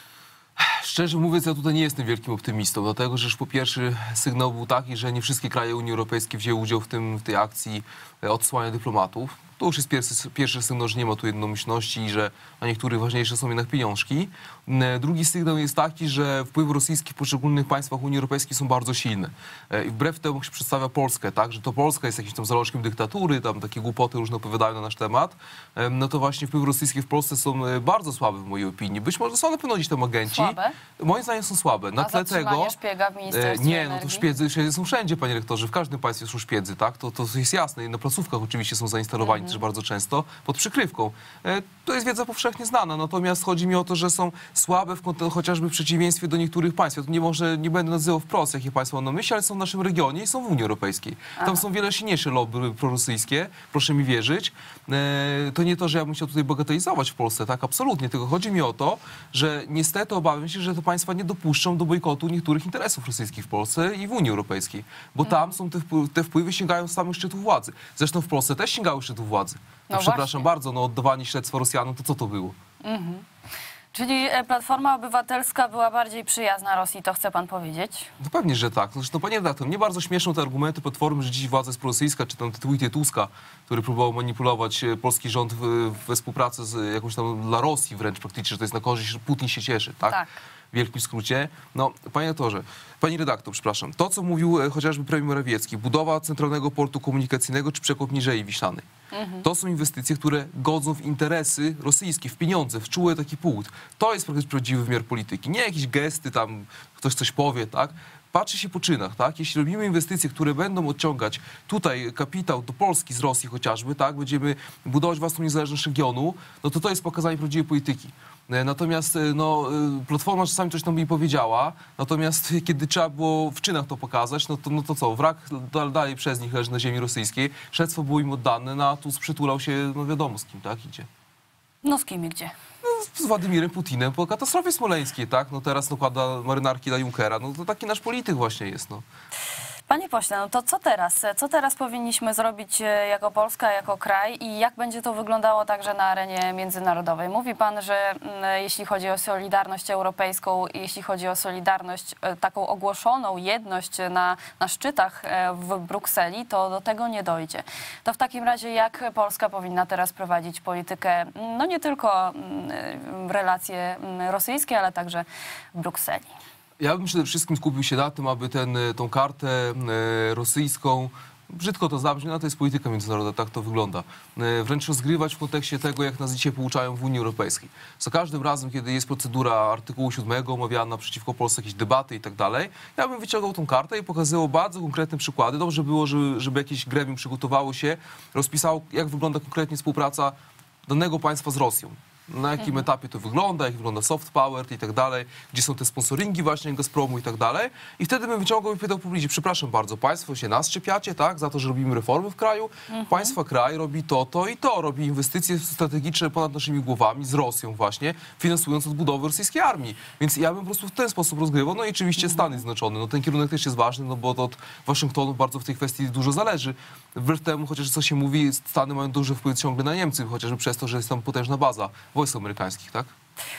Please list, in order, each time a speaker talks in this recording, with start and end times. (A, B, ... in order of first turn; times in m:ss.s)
0:00.6-0:32.7 A
0:30.3-0:30.8 B
0:32.0-0:34.3 B
0:33.3-1:12.6 A
0:39.2-0:39.6 B
1:09.9-1:10.4 B
1:12.8-1:13.2 B
1:13.9-1:18.1 B
1:18.2-1:30.2 A
1:30.7-1:38.8 A
1:39.1-1:39.4 B
1:39.4-2:11.1 A
2:11.8-2:12.5 B
2:12.8-2:19.0 A
2:19.9-2:46.3 B
2:46.8-3:10.4 A
3:10.9-3:43.1 A
3:12.6-3:12.8 B
3:22.9-3:23.4 B